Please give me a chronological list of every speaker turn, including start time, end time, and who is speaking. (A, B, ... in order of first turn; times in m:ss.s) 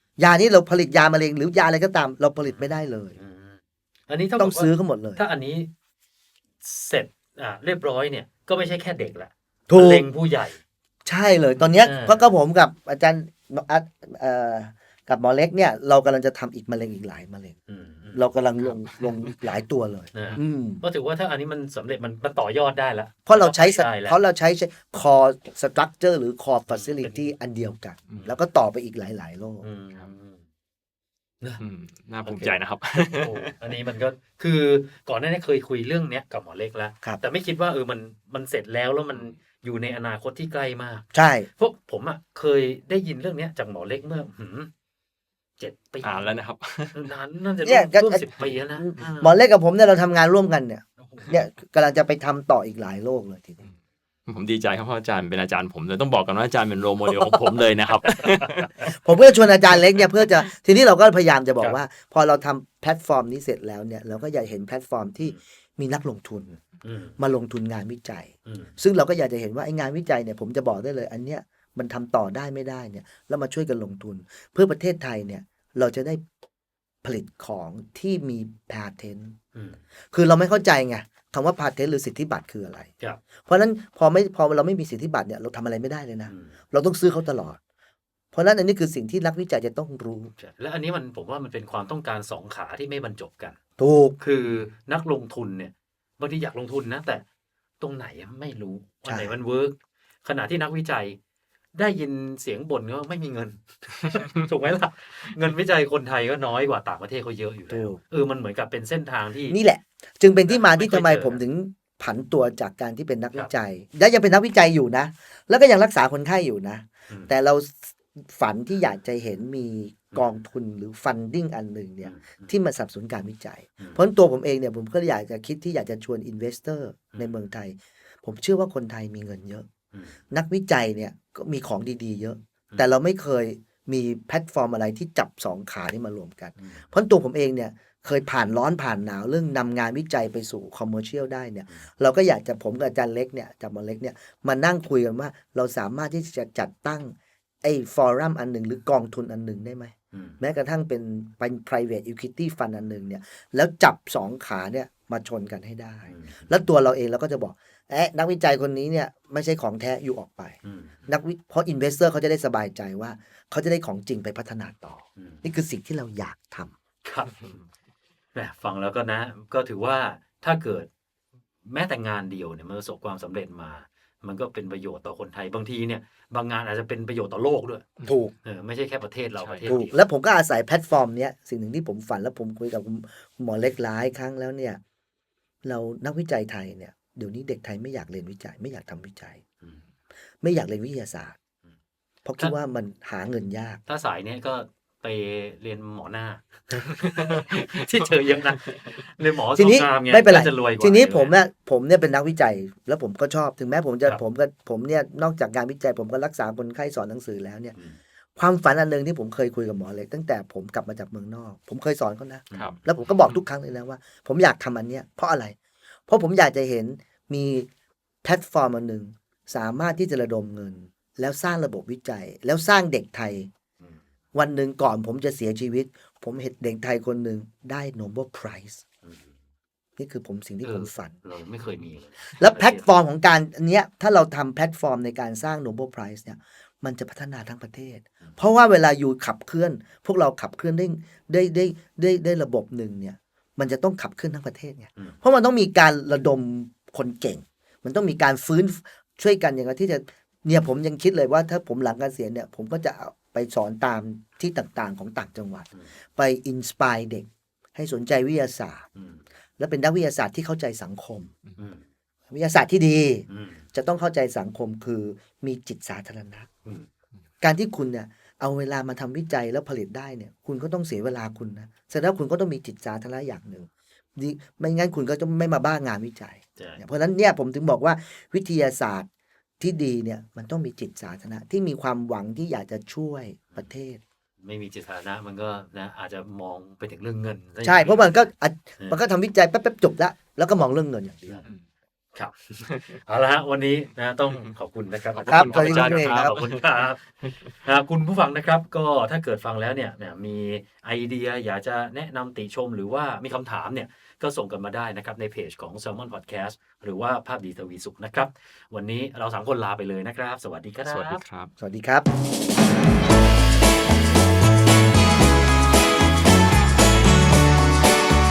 0:00.2-0:03.2 A
0:03.2-0:05.7 B
0:04.4-0:05.2 A
0:06.6-0:10.6 B
0:09.7-0:10.1 A
0:11.0-0:17.6 A
0:11.8-0:12.3 B
0:17.7-0:18.2 B
0:18.1-0:20.8 A
0:20.1-0:24.2 B
0:23.3-0:29.7 A
0:26.7-0:27.2 B
0:29.6-0:30.4 B
0:31.6-0:33.5 C
0:32.2-0:44.7 B
0:41.1-0:41.5 A
0:45.6-0:46.2 B
0:46.0-0:47.0 C
0:46.9-0:49.3 B
0:47.6-0:48.2 A
0:48.8-0:53.7 A
0:51.0-0:51.4 B
0:54.3-0:58.8 C
0:58.2-0:58.9 B
0:58.8-1:06.6 A
1:06.8-1:07.2 B
1:07.2-1:16.2 A
1:08.5-1:08.8 B
1:17.0-1:19.4 A
1:19.6-1:19.8 B
1:20.1-1:22.9 A
1:23.5-1:27.6 A
1:26.3-1:26.6 B
1:28.3-1:30.3 A
1:30.4-1:33.6 B
1:33.8-1:34.2 A
1:34.2-1:37.2 B
1:37.8-1:41.2 B
1:39.1-1:39.3 A
1:41.8-1:49.6 B
1:47.7-1:48.0 A
1:49.5-2:09.7 A
1:50.4-1:51.4 B
2:02.0-2:02.5 B
2:09.9-2:10.2 B
2:10.3-2:46.7 A
2:16.6-2:16.8 B
2:30.1-2:30.4 B
2:36.1-2:36.5 B
2:40.6-2:41.1 B
2:45.2-2:45.4 B
2:47.0-2:47.6 B
2:48.3-2:50.9 B
2:51.6-2:57.8 B
2:58.0-2:58.3 A
2:58.4-3:00.0 B
2:59.4-2:59.8 C
2:59.7-3:04.8 A
3:05.6-3:09.4 A
3:10.4-3:11.4 A
3:12.2-3:13.8 A
3:13.9-3:21.4 B
3:19.6-3:27.8 A
3:28.4-3:35.6 A
3:32.5-3:32.8 B
3:36.1-3:37.7 A
3:38.2-3:43.5 A
3:44.4-3:48.8 A
3:49.0-3:49.3 B
3:50.0-3:51.1 A
3:50.6-3:52.9 B
3:52.4-4:18.8 A
4:19.0-4:19.2 B
4:19.6-4:21.3 A
4:21.6-4:21.8 B
4:22.3-4:26.5 A
4:23.3-4:23.6 B
4:27.4-4:39.1 A
4:36.6-4:36.8 B
4:39.6-4:44.0 A
4:44.4-4:48.3 B
4:47.6-4:51.4 A
4:52.2-5:11.2 B
4:55.2-4:57.5 C
4:55.3-4:56.4 A
5:10.8-5:11.5 C
5:11.6-5:12.1 A